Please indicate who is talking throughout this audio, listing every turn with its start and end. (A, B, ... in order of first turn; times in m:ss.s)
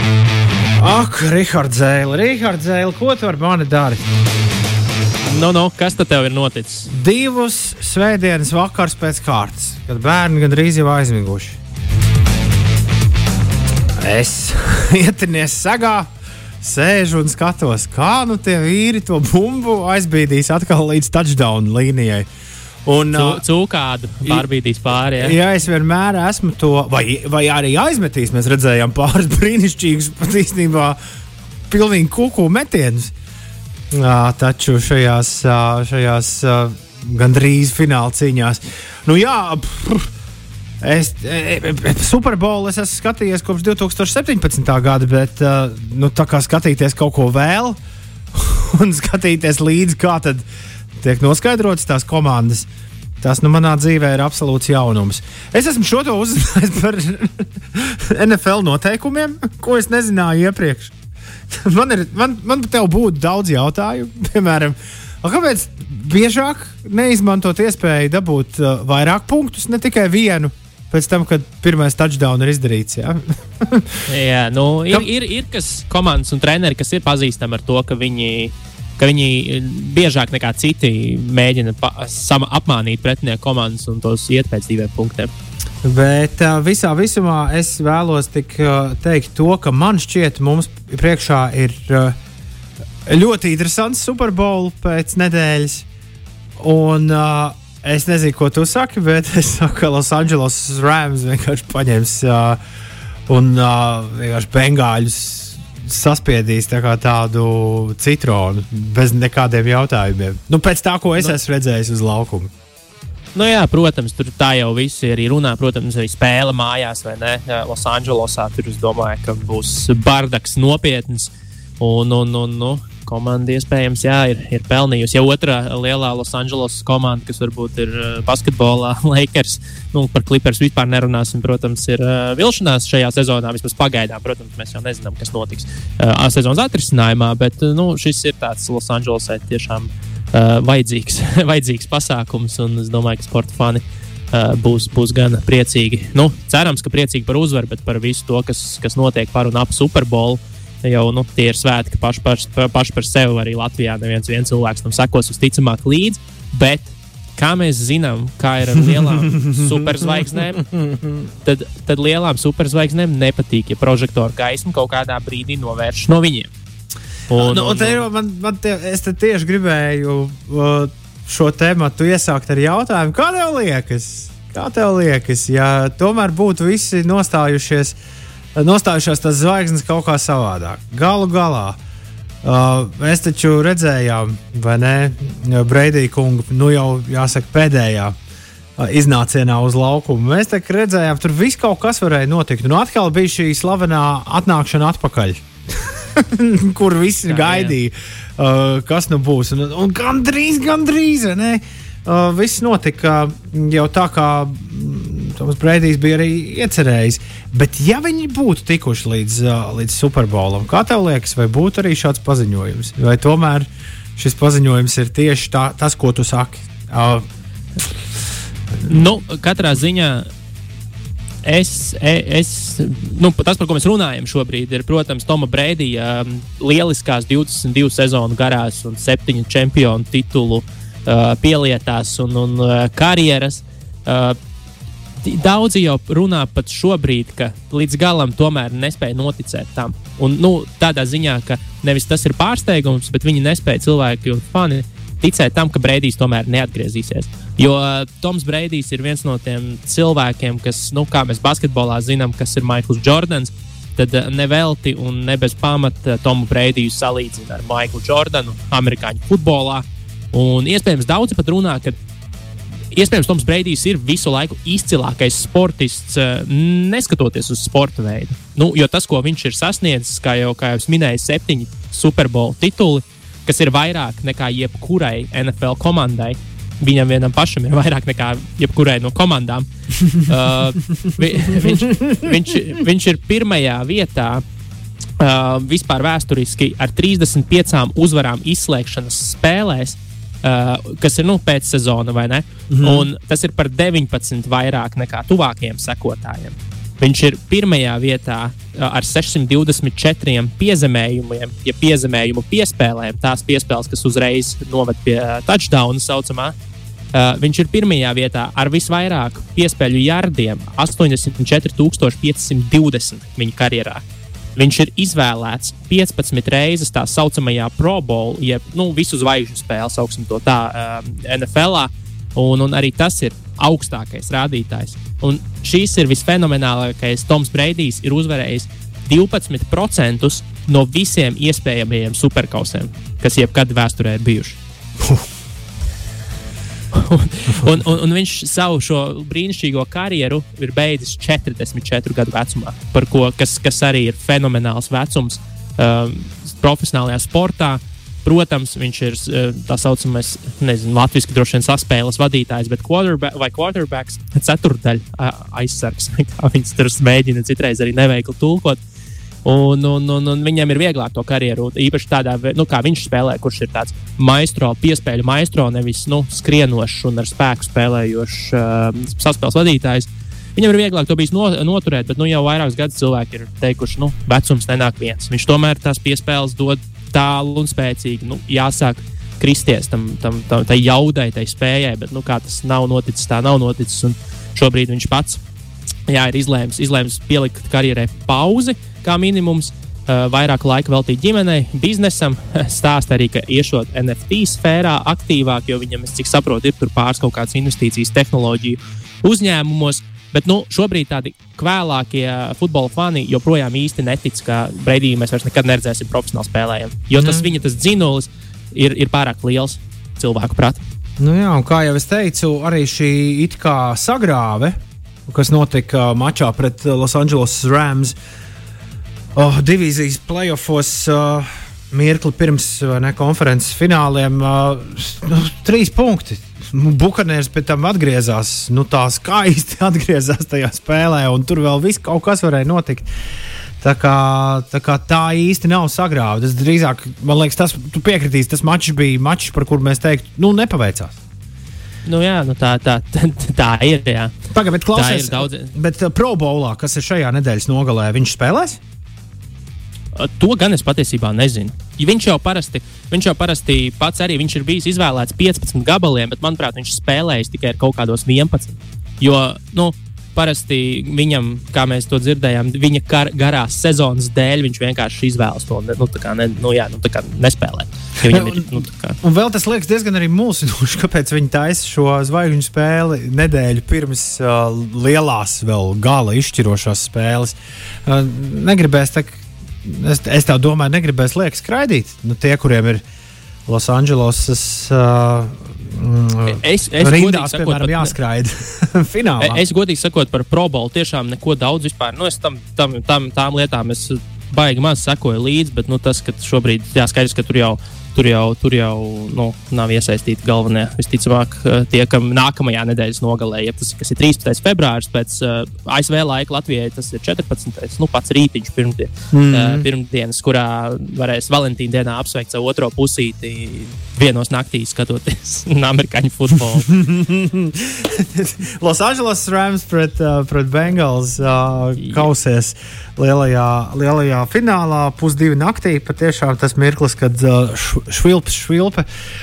0:00.8-0:04.0 A
0:05.3-0:06.9 B
0:06.9-0:11.6 A
0:14.0-0:16.1 A
0:16.6-0:22.3 A
0:22.9-0:23.4 A
0:23.1-0:25.4 B
0:25.2-0:31.0 A
0:31.7-0:33.1 A
0:33.9-0:40.1 A
0:40.8-0:47.8 A
0:48.3-0:50.4 A
0:51.0-0:52.7 A
0:53.2-1:00.9 A
1:01.5-1:14.0 A
1:14.1-1:25.3 B
1:25.8-1:32.2 A
1:33.1-1:35.9 A
1:36.6-1:42.6 A
1:43.3-1:52.5 A
1:53.4-2:40.6 B
2:38.8-2:41.3 A
2:41.4-2:46.5 B
2:47.3-2:48.0 B
2:47.4-2:58.0 A
2:58.6-3:01.8 A
3:02.4-3:08.2 A
3:08.8-3:37.2 A
3:17.3-3:17.8 B
3:38.8-3:40.3 B
3:41.4-3:54.4 B
3:55.2-4:22.0 B
4:22.9-4:44.4 B
4:41.6-4:42.3 A
4:45.2-5:06.5 B
4:52.7-4:53.1 A
5:07.1-5:14.0 B
5:14.6-5:34.6 B
5:36.9-5:58.8 B
5:59.4-6:25.4 B
6:26.1-6:50.8 B
6:47.2-6:47.5 A
6:51.2-6:58.2 A
6:59.4-7:13.1 A
7:13.8-7:21.2 A
7:22.1-7:24.4 B
7:24.5-7:28.8 A
7:24.9-7:25.7 B
7:30.2-7:49.2 B
7:48.3-8:03.0 A
8:03.7-8:09.6 A
8:06.4-8:08.2 B
8:09.4-8:36.9 B
8:29.3-8:29.9 A
8:36.8-8:49.1 A